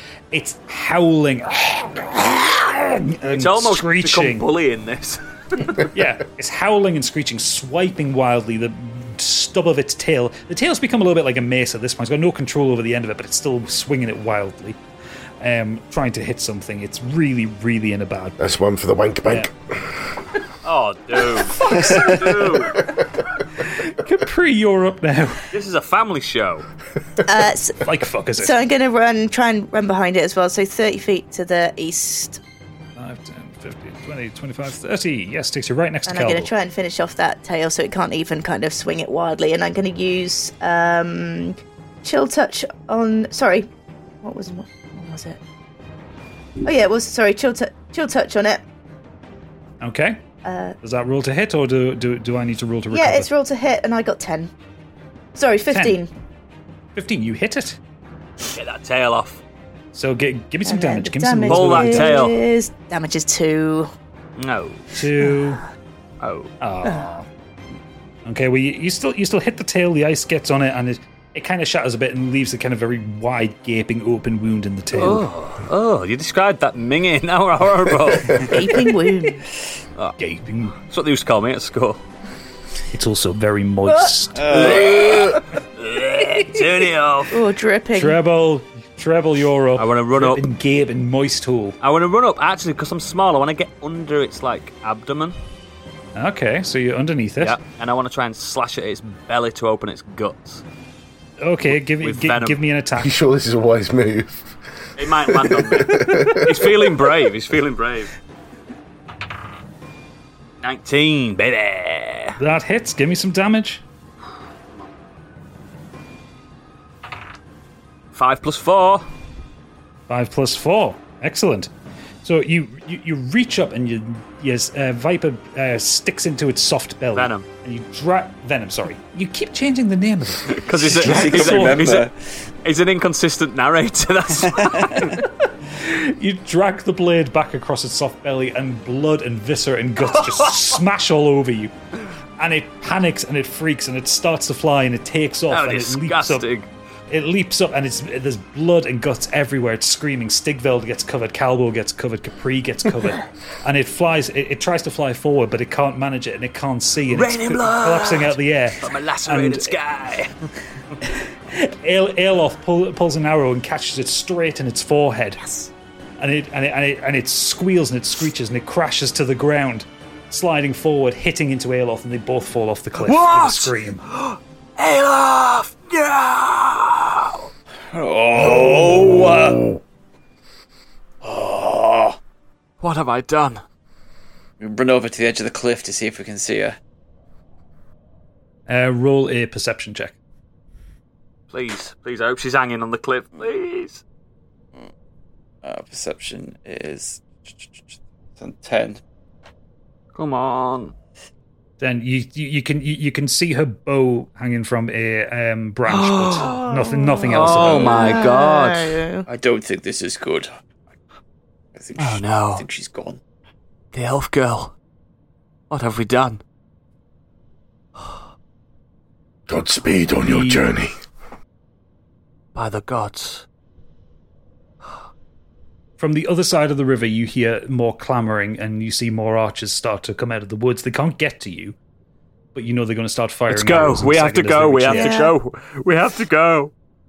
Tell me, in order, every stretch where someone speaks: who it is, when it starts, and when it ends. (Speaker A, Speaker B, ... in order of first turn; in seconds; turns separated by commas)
Speaker A: 0.3-4.5, Speaker B: 3.3-5.8, Speaker A: 5.9-14.8, Speaker A: 15.4-18.6, Speaker C: 18.4-20.0, Speaker B: 20.6-22.9, Speaker A: 21.6-22.2, Speaker A: 23.6-25.5, Speaker B: 25.5-26.7, Speaker D: 27.3-27.8, Speaker A: 27.8-28.5, Speaker D: 28.4-32.4, Speaker A: 33.0-36.5, Speaker D: 36.1-43.7, Speaker D: 44.2-45.4, Speaker D: 46.6-48.6, Speaker A: 49.8-50.2, Speaker D: 50.4-50.8, Speaker A: 50.8-53.3, Speaker D: 52.9-54.5, Speaker D: 55.4-56.1, Speaker A: 55.7-56.0, Speaker A: 57.0-57.8, Speaker B: 58.5-59.4, Speaker A: 59.9-62.2, Speaker D: 60.7-63.9, Speaker B: 61.5-62.4, Speaker B: 64.4-64.9, Speaker A: 65.0-65.6, Speaker B: 66.2-66.5, Speaker A: 66.6-67.3, Speaker A: 68.2-75.2, Speaker B: 75.0-78.8, Speaker D: 78.4-79.5, Speaker A: 80.2-80.8, Speaker B: 80.9-82.0, Speaker A: 82.9-84.8, Speaker D: 83.9-84.1, Speaker E: 84.3-85.3, Speaker B: 84.5-87.4, Speaker D: 87.3-88.2, Speaker A: 87.9-91.8, Speaker B: 89.8-90.5, Speaker B: 91.8-95.4, Speaker A: 96.2-97.6, Speaker B: 97.4-100.6, Speaker A: 101.4-103.1, Speaker B: 102.0-102.6, Speaker C: 103.0-104.5, Speaker B: 105.0-108.1, Speaker C: 105.3-106.7, Speaker B: 110.6-112.4, Speaker A: 112.4-113.8, Speaker B: 118.1-119.1, Speaker A: 120.1-121.7, Speaker A: 122.2-131.9, Speaker B: 127.2-127.5, Speaker B: 130.6-132.1, Speaker E: 130.9-132.2, Speaker B: 132.6-135.1, Speaker E: 134.4-135.1, Speaker A: 134.9-141.7, Speaker B: 140.1-140.8, Speaker A: 142.4-146.5, Speaker B: 145.5-146.7, Speaker A: 147.1-159.8, Speaker B: 157.1-160.3, Speaker A: 161.0-165.4, Speaker D: 165.4-165.7, Speaker A: 166.2-174.0, Speaker B: 173.0-177.5, Speaker E: 177.9-179.6, Speaker C: 178.6-179.0, Speaker E: 181.2-182.2, Speaker B: 182.8-183.6, Speaker E: 184.6-186.8, Speaker A: 188.7-190.2, Speaker B: 191.5-194.0, Speaker E: 195.6-199.0, Speaker B: 200.2-200.9, Speaker A: 201.8-207.9, Speaker B: 205.9-206.7, Speaker D: 206.4-209.3, Speaker B: 207.3-209.0, Speaker E: 207.6-208.1, Speaker E: 209.3-210.5, Speaker E: 211.8-213.2, Speaker B: 212.0-212.7, Speaker B: 213.9-214.7, Speaker B: 215.7-216.4, Speaker C: 219.5-220.9, Speaker A: 220.2-220.7, Speaker B: 222.6-223.4, Speaker A: 226.0-231.8, Speaker A: 232.5-235.2, Speaker B: 233.5-236.7, Speaker D: 234.9-235.4